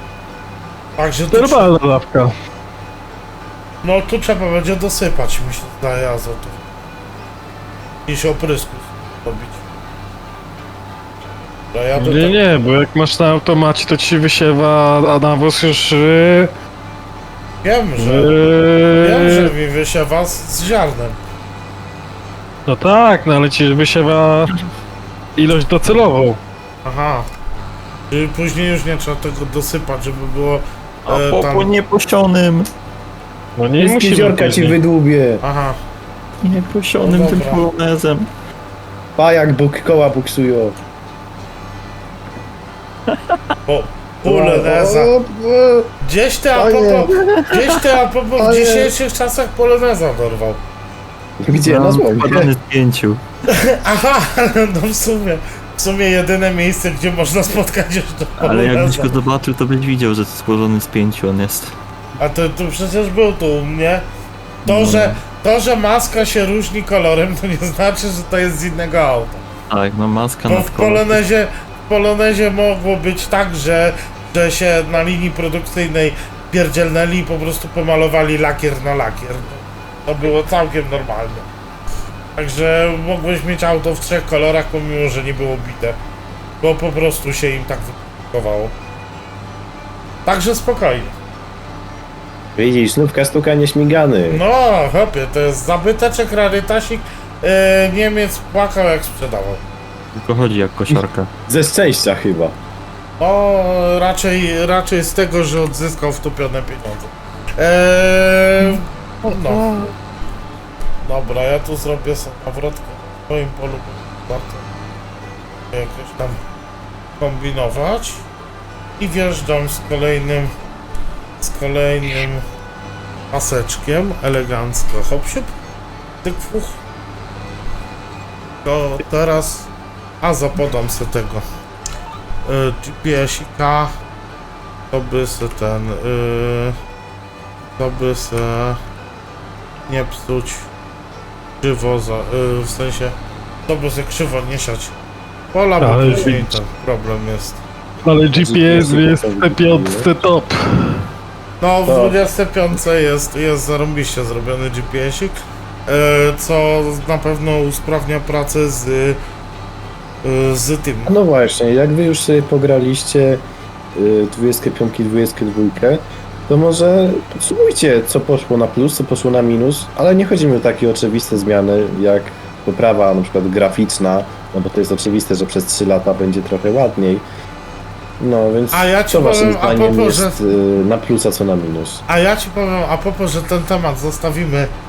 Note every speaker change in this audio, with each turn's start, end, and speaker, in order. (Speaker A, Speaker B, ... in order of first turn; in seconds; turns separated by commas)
Speaker A: 1.0-1.7, Speaker B: 1.3-2.3, Speaker A: 3.8-6.6, Speaker A: 8.1-9.6, Speaker A: 11.7-12.7, Speaker B: 12.0-16.5, Speaker A: 17.6-18.4, Speaker B: 18.0-19.5, Speaker A: 19.0-21.2, Speaker B: 22.7-24.6, Speaker B: 25.4-26.4, Speaker A: 26.9-27.3, Speaker A: 28.1-31.7, Speaker C: 31.1-32.7, Speaker B: 33.6-34.8, Speaker D: 33.8-35.4, Speaker A: 35.4-35.8, Speaker C: 36.4-38.3, Speaker A: 37.0-37.7, Speaker D: 39.2-40.8, Speaker C: 43.1-43.4, Speaker A: 43.7-45.1, Speaker D: 44.2-45.9, Speaker A: 46.0-50.6, Speaker D: 46.5-47.2, Speaker C: 47.2-47.7, Speaker D: 48.4-48.9, Speaker D: 51.4-52.5, Speaker C: 51.6-53.2, Speaker A: 53.5-59.2, Speaker C: 58.4-61.8, Speaker A: 62.2-64.0, Speaker A: 64.7-69.5, Speaker C: 64.7-65.2, Speaker C: 69.7-71.2, Speaker A: 70.5-81.5, Speaker A: 82.4-86.0, Speaker A: 86.6-88.7, Speaker A: 90.2-91.2, Speaker D: 92.5-94.4, Speaker A: 94.3-99.6, Speaker C: 100.2-101.3, Speaker D: 100.9-102.6, Speaker A: 103.2-109.7, Speaker B: 109.3-109.9, Speaker A: 111.0-114.7, Speaker A: 115.7-116.4, Speaker A: 117.2-118.3, Speaker A: 119.0-120.5, Speaker A: 121.4-122.4, Speaker A: 123.3-125.5, Speaker A: 126.2-126.8, Speaker A: 128.6-129.7, Speaker A: 130.2-131.4, Speaker A: 132.5-133.9, Speaker A: 134.9-136.8, Speaker A: 137.8-138.8, Speaker A: 139.9-140.7, Speaker A: 141.6-143.2, Speaker A: 143.7-144.9, Speaker A: 145.5-147.6, Speaker B: 145.8-146.6, Speaker B: 148.1-151.0, Speaker D: 148.3-150.1, Speaker A: 151.6-159.2, Speaker D: 151.9-152.2, Speaker A: 160.2-161.1, Speaker D: 161.1-163.4, Speaker D: 163.9-177.3, Speaker D: 178.2-182.0, Speaker A: 178.7-180.4, Speaker A: 182.1-184.7